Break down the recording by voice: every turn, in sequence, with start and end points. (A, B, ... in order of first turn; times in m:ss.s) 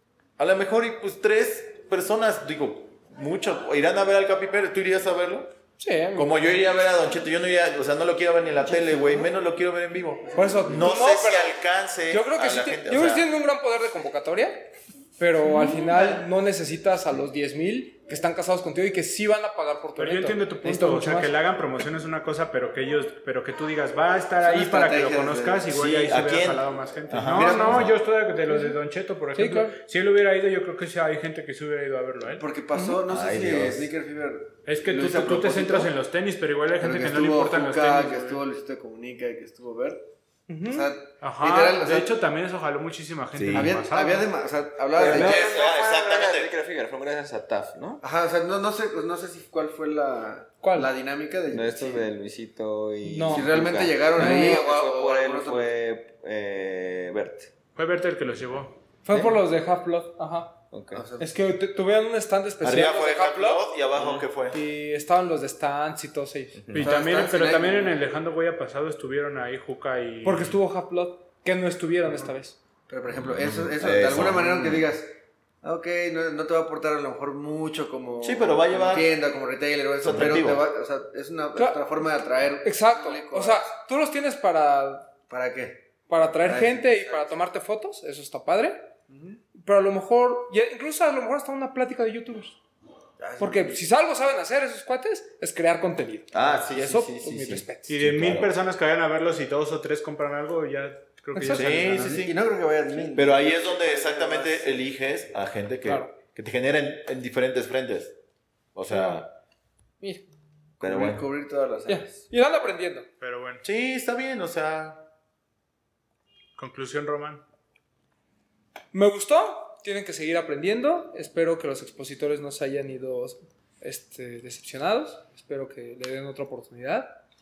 0:00.4-0:05.5 A
0:05.8-0:06.4 B
0:06.1-0:13.3 A
0:08.6-0:09.3 C
0:10.2-0:10.9 C
0:10.3-0:21.3 B
0:15.6-0:16.2 A
0:20.0-0:32.4 D
0:24.4-0:25.7 C
0:25.7-0:28.0 A
0:27.2-0:27.9 C
0:28.5-0:28.8 B
0:29.3-0:29.8 B
0:32.3-0:35.9 C
0:32.7-0:33.0 B
0:33.1-0:33.9 A
0:34.6-0:38.4 D
0:36.8-0:40.1 C
0:40.5-0:40.9 B
0:40.6-0:42.2 C
0:41.2-0:44.3 D
0:43.3-0:43.8 A
0:43.5-0:45.4 C
0:44.9-0:48.0 E
0:45.0-0:46.5 A
0:48.0-0:52.1 C
0:50.6-0:50.9 B
0:51.5-0:57.5 E
0:53.0-0:53.5 B
0:53.2-0:55.7 C
0:54.2-0:54.6 B
0:57.7-0:58.8 D
0:59.0-1:00.6 B
1:00.7-1:01.0 E
1:00.9-1:01.3 C
1:01.2-1:03.6 B
1:02.6-1:04.6 A
1:04.0-1:04.2 E
1:04.5-1:06.6 B
1:06.6-1:06.9 E
1:06.7-1:10.6 D
1:06.8-1:08.0 C
1:10.2-1:12.6 B
1:12.9-1:23.7 C
1:13.2-1:14.9 A
1:18.2-1:19.1 A
1:20.0-1:20.7 A
1:21.6-1:21.8 B
1:22.6-1:25.1 B
1:25.3-1:25.9 C
1:26.1-1:28.9 B
1:26.4-1:27.3 C
1:29.1-1:29.4 C
1:29.5-1:32.6 B
1:33.2-1:33.8 C
1:33.4-1:38.0 B
1:36.3-1:38.5 A
1:37.9-1:42.2 D
1:41.3-1:41.8 B
1:41.5-1:42.3 A
1:42.0-1:44.9 C
1:43.1-1:48.2 A
1:45.8-1:46.1 B
1:48.7-1:49.4 A
1:48.9-1:49.2 B
1:50.0-1:50.2 B
1:50.8-1:51.2 A
1:50.8-1:52.3 C
1:51.9-1:53.1 B
1:53.2-1:53.6 D
1:53.6-1:55.1 A
1:56.6-1:57.4 D
1:58.9-2:07.2 B